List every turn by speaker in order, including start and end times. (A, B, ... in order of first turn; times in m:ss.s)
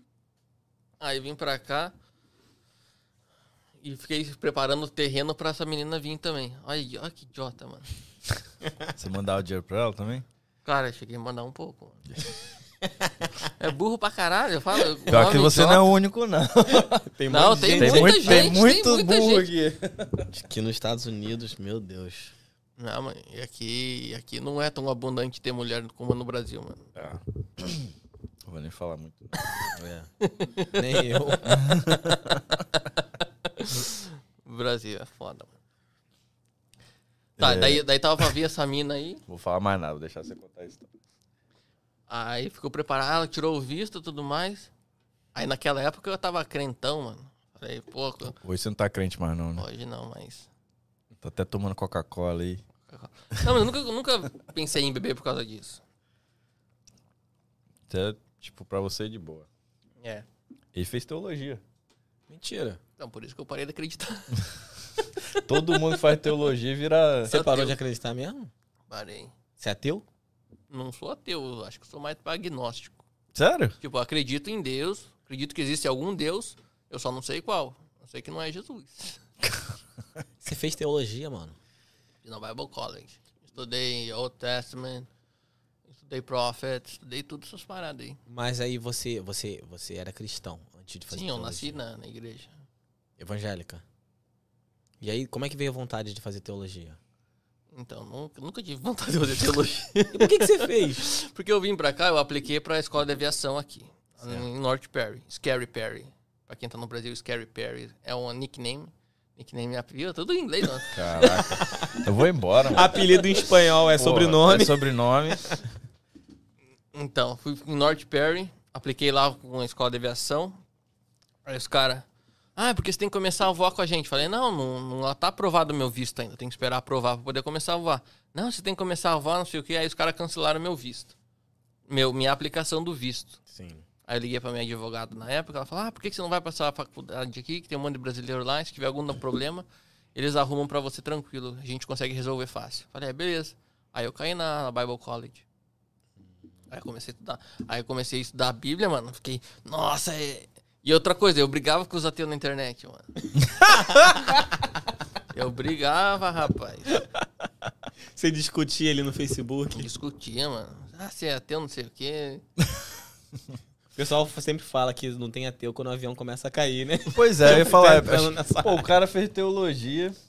0:01.0-0:01.9 A
0:03.8-0:07.9 A
0:09.0-0:10.3 B
0:10.6-0:12.0 A
0:12.8-0:13.1 C
0:13.6-0:15.9 A
0:15.1-0:17.1 B
0:17.0-0:18.6 C
0:17.3-0:19.5 A
0:17.8-0:20.3 B
0:20.3-0:22.3 C
0:22.8-0:26.8 A
0:27.0-0:27.9 B
0:28.4-0:29.3 B
0:29.7-0:30.1 C
0:30.2-0:30.7 A
0:30.7-0:31.6 C
0:31.5-0:32.4 B
0:33.0-0:35.5 A
0:37.4-0:39.2 A
0:37.4-0:37.8 B
0:39.3-0:40.9 B
0:42.1-0:44.7 A
0:45.4-0:48.4 A
0:48.4-0:49.6 B
0:49.6-0:50.5 A
0:51.2-0:52.6 B
0:52.9-0:55.8 A
0:57.9-0:59.5 B
1:00.0-1:00.3 A
1:00.8-1:01.6 B
1:02.3-1:02.8 C
1:03.0-1:04.5 A
1:05.0-1:05.9 A
1:05.4-1:07.4 B
1:07.3-1:08.5 C
1:07.3-1:07.8 A
1:08.9-1:09.3 A
1:09.6-1:10.0 C
1:10.7-1:13.0 A
1:13.3-1:13.8 B
1:13.8-1:19.2 A
1:20.4-1:21.6 C
1:22.2-1:25.1 A
1:25.9-1:28.2 A
1:28.3-1:31.8 C
1:31.1-1:32.6 A
1:33.2-1:33.8 C
1:35.0-1:37.0 C
1:37.7-1:51.0 A
1:40.1-1:41.1 C
1:50.9-1:53.0 B
1:51.4-1:52.0 C
1:52.7-1:55.6 C
1:54.0-1:55.6 B
1:56.9-2:00.6 A
2:01.4-2:11.1 A
2:11.9-2:13.4 A
2:13.5-2:13.8 C
2:14.1-2:25.4 A
2:26.7-2:33.2 A
2:33.7-2:34.2 C
2:35.3-2:37.0 A
2:38.1-2:39.9 C
2:39.7-2:42.4 A
2:43.9-2:48.9 C
2:47.1-2:50.2 B